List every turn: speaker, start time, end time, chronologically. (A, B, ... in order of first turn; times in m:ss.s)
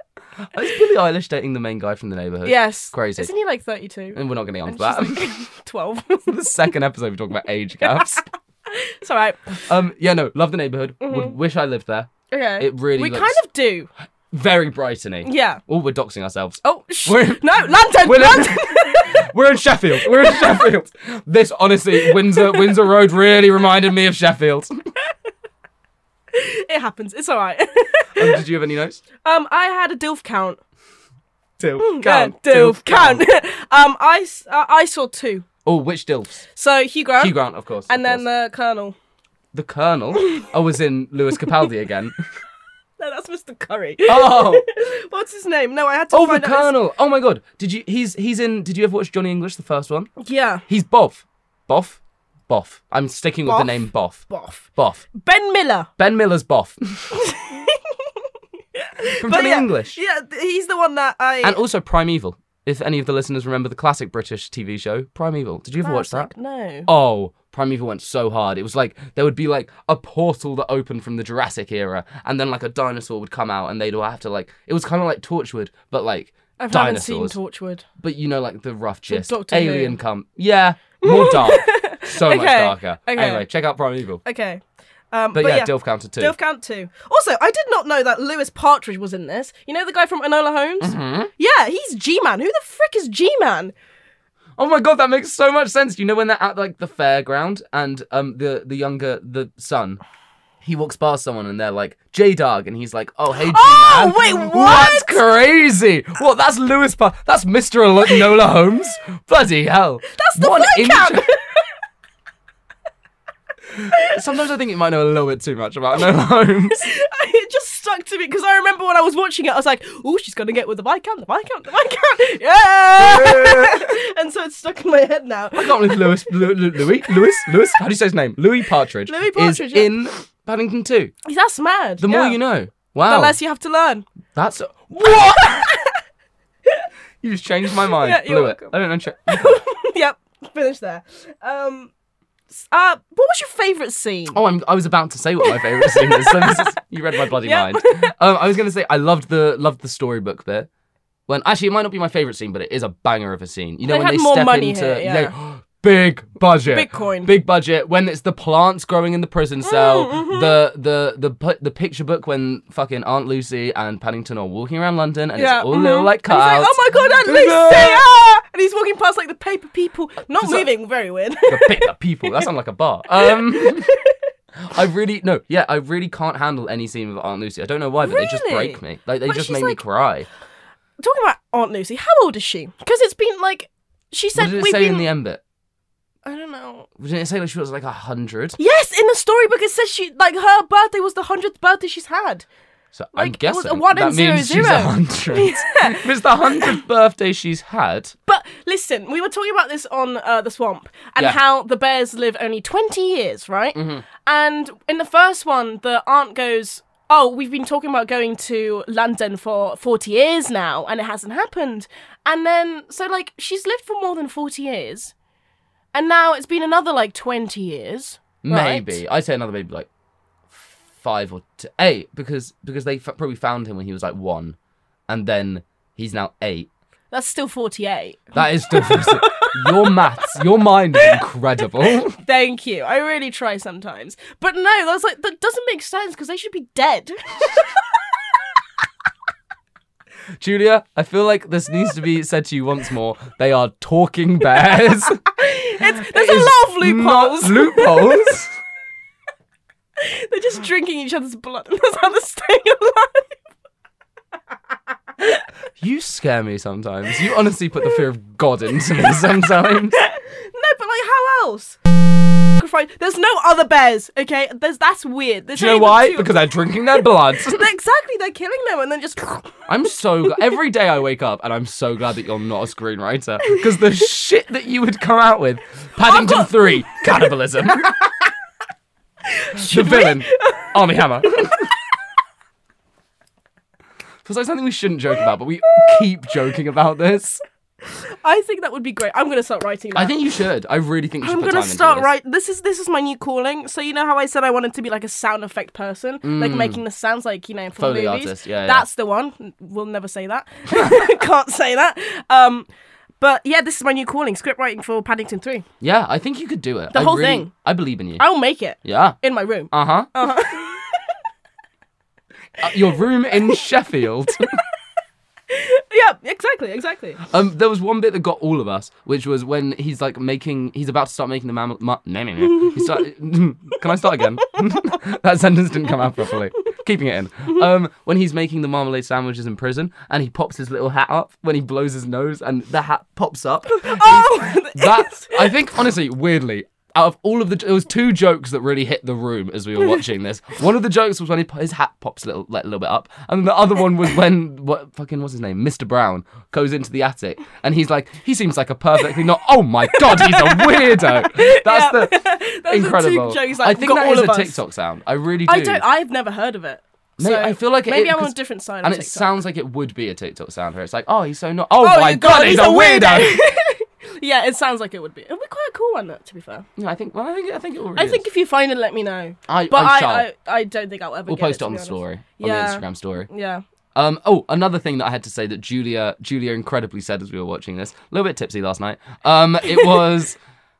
0:00.5-0:03.3 A
0:02.4-0:06.3 B
0:04.1-0:05.3 A
0:06.3-0:08.2 A
0:07.8-0:09.6 B
0:09.6-0:13.4 A
0:11.0-0:11.4 B
0:12.3-0:13.9 B
0:14.3-0:24.7 A
0:15.2-0:15.6 B
0:16.6-0:19.2 B
0:20.0-0:20.6 B
0:22.0-0:22.8 B
0:26.3-0:28.4 B
0:28.2-0:29.0 A
0:29.2-0:30.6 B
0:31.6-0:33.2 A
0:31.8-0:35.5 B
0:35.6-0:36.4 A
0:36.6-0:37.4 B
0:37.2-0:38.2 A
0:37.9-0:39.0 B
0:39.5-0:42.2 A
0:40.2-0:40.5 B
0:43.0-0:46.7 B
0:44.0-0:44.6 A
0:46.1-0:50.1 A
0:50.2-0:50.6 B
0:50.7-0:55.1 A
0:53.4-0:55.9 B
0:56.0-0:57.3 A
0:57.1-0:58.2 B
0:58.8-1:01.6 B
0:59.2-1:00.0 A
1:01.4-1:06.3 A
1:05.8-1:06.9 B
1:06.8-1:17.4 A
1:16.6-1:17.8 B
1:18.0-1:24.2 A
1:19.1-1:20.0 B
1:21.0-1:23.5 B
1:24.2-1:33.7 B
1:25.3-1:26.3 A
1:30.8-1:31.3 A
1:34.6-1:40.0 A
1:40.6-1:51.3 A
1:43.3-1:45.2 B
1:50.1-1:51.6 B
1:53.7-1:56.9 A
1:56.8-2:06.3 B
2:03.0-2:03.9 A
2:05.6-2:11.1 A
2:09.1-2:09.9 B
2:11.2-2:12.4 B
2:12.0-2:13.4 A
2:13.1-2:14.1 B
2:14.3-2:15.7 A
2:15.0-2:16.0 B
2:17.2-2:19.6 A
2:17.8-2:18.8 B
2:19.3-2:21.9 B
2:22.5-2:24.4 B
2:24.3-2:30.7 A
2:25.4-2:28.1 B
2:31.3-2:48.0 A
2:33.9-2:35.3 B
2:36.7-2:37.3 B
2:39.6-2:40.5 B
2:45.4-2:52.5 B
2:50.4-2:50.7 A
2:51.5-2:53.9 A
2:53.2-2:54.2 B
2:54.6-3:00.3 A
2:58.0-2:59.8 B
3:01.0-3:05.1 B
3:04.3-3:05.4 A
3:06.2-3:06.9 B
3:07.0-3:08.6 A
3:08.6-3:12.4 B
3:12.9-3:18.2 A
3:13.1-3:16.8 B
3:18.3-3:35.1 B
3:23.8-3:24.0 A
3:35.9-3:39.0 B
3:38.4-3:39.9 A
3:40.5-3:44.6 A
3:45.1-3:46.7 A
3:47.1-3:50.0 B
3:48.3-3:52.2 A
3:52.2-3:58.4 B
4:00.4-4:05.2 A
4:05.3-4:08.3 B
4:05.8-4:08.5 A
4:10.0-4:13.4 B
4:15.2-4:15.4 B
4:15.8-4:20.0 A
4:19.0-4:21.8 B
4:22.6-4:29.6 B
4:25.6-4:27.7 A
4:29.7-4:37.9 A
4:36.0-4:36.6 B
4:39.3-4:41.8 B
4:39.5-4:41.7 A
4:44.2-4:47.4 A
4:47.8-4:50.1 B
4:49.9-4:52.1 A
4:51.2-5:02.7 B
4:56.2-4:56.8 A
4:57.8-4:58.8 A
5:00.7-5:01.0 A
5:03.2-5:05.6 B
5:05.8-5:08.2 A
5:06.9-5:07.5 B
5:08.2-5:11.0 B
5:08.8-5:09.2 A
5:09.7-5:10.1 A
5:12.6-5:14.6 A
5:15.5-5:17.2 B
5:17.2-5:55.8 A
5:22.5-5:23.0 B
5:33.8-5:35.6 B
5:49.9-5:54.6 B
5:55.5-5:59.3 B
5:57.2-6:03.4 A
6:01.8-6:06.7 B
6:06.8-6:08.2 A
6:07.9-6:13.6 B
6:09.5-6:10.3 A
6:11.3-6:13.3 A
6:13.9-6:20.4 A